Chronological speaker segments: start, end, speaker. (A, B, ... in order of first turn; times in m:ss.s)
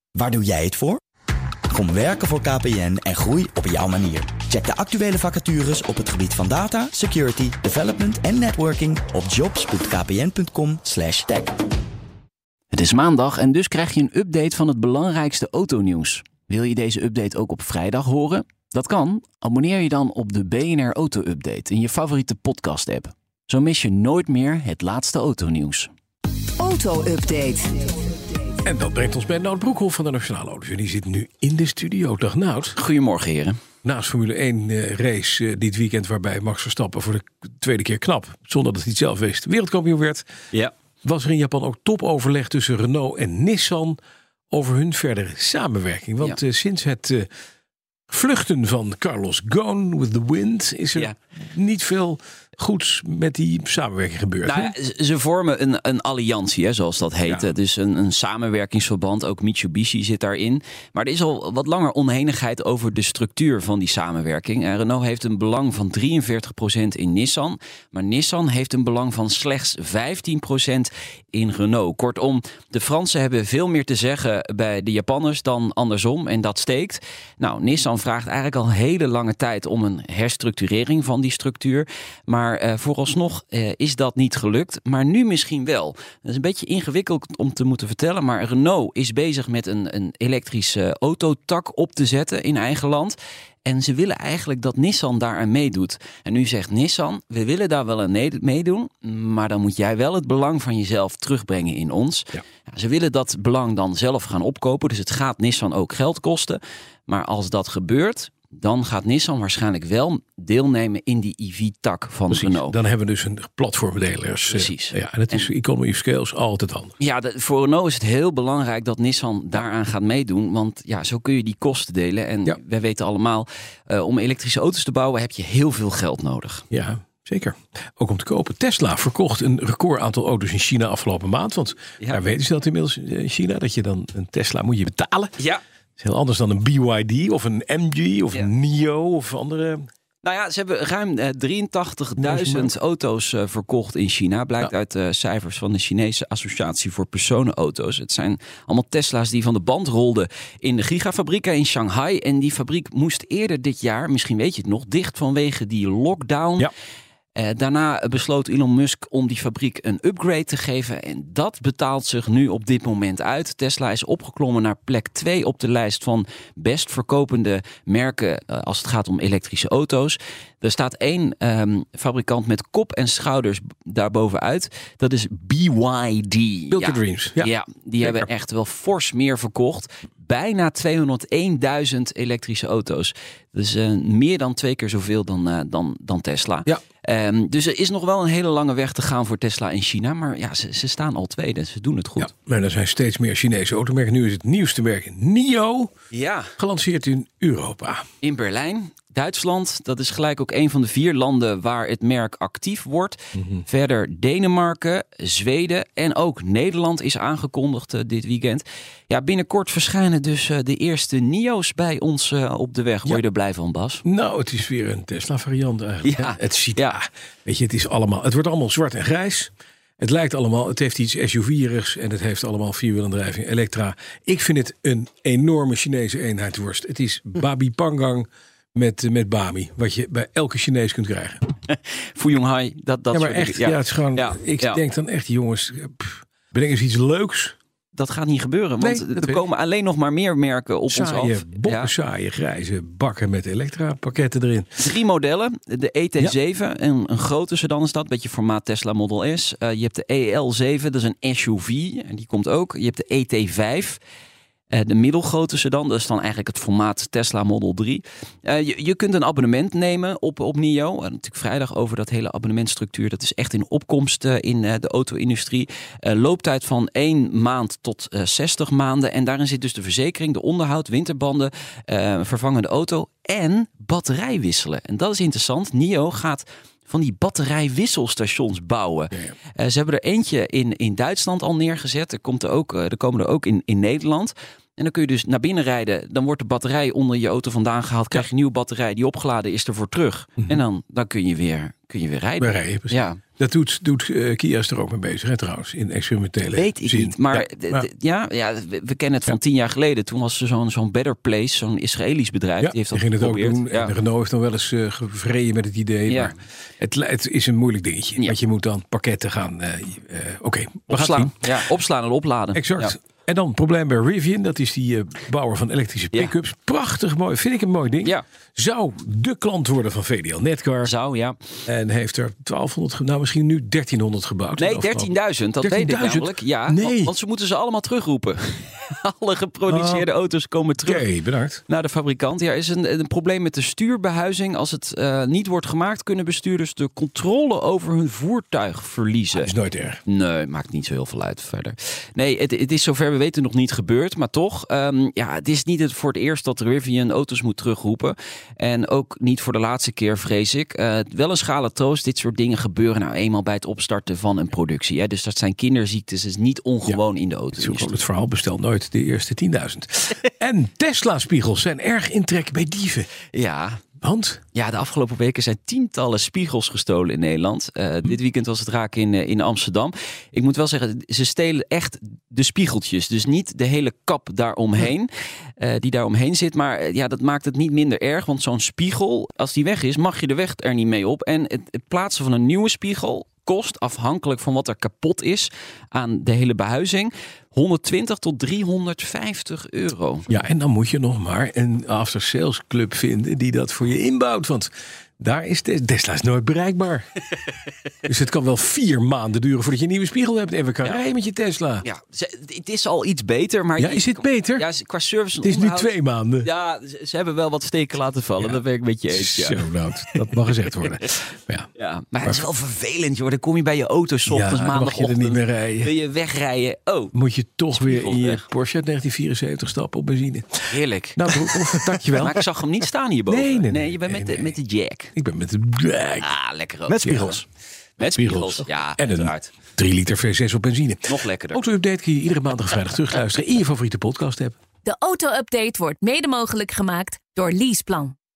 0:00.4-0:00.9 A
0:01.7-0:11.5 A
0:12.7-0:25.9 B
0:26.6-0:26.9 A
0:28.6-0:32.8 C
0:32.8-0:33.6 B
0:33.8-0:40.2 C
0:41.0-0:44.0 C
0:44.5-0:47.3 C
0:48.1-0:54.7 C
0:54.4-1:52.7 B
0:57.2-0:57.5 C
1:52.3-1:56.9 C
1:54.4-1:55.5 B
1:57.0-2:06.6 B
2:06.7-2:15.3 C
2:16.0-2:19.8 C
2:20.2-2:36.7 B
2:22.2-2:22.7 C
2:37.3-3:12.3 B
2:56.7-2:58.3 C
3:12.2-3:15.9 C
3:16.1-3:16.5 B
3:16.6-3:18.0 C
3:18.2-3:34.0 B
3:23.3-3:23.6 C
3:34.0-3:51.4 C
3:36.0-3:37.0 B
3:51.7-3:54.8 B
3:53.1-3:57.6 C
3:57.9-4:01.9 B
3:58.8-3:59.4 C
4:00.9-4:04.8 C
4:04.8-4:14.0 B
4:14.7-4:53.2 B
4:52.4-4:57.9 C
4:56.5-5:03.9 B
5:02.6-5:11.6 C
5:06.1-5:06.3 B
5:10.9-5:13.0 B
5:12.5-5:20.9 C
5:20.8-5:21.4 B
5:21.6-5:27.1 C
5:24.6-5:31.0 B
5:29.7-5:30.1 C
5:30.8-5:31.6 C
5:31.7-5:39.5 B
5:39.3-5:40.0 C
5:40.0-5:58.0 B
5:57.5-6:03.1 C
6:03.3-6:03.8 B
6:04.0-6:04.4 C
6:04.5-6:30.3 B
6:30.3-6:37.0 C
6:38.0-6:41.8 C
6:41.8-6:50.7 B
6:43.8-6:44.6 C
6:45.4-6:46.5 C
6:48.4-6:51.7 C
6:51.8-6:57.1 B
6:54.3-6:55.9 C
6:57.1-7:02.4 C
6:57.7-6:58.4 B
7:00.7-7:05.1 B
7:03.3-7:04.6 C
7:05.1-7:06.3 C
7:06.2-7:07.4 B
7:06.9-7:07.4 C
7:08.0-7:09.5 B
7:08.1-7:14.6 C
7:11.1-7:11.6 B
7:14.8-7:18.1 D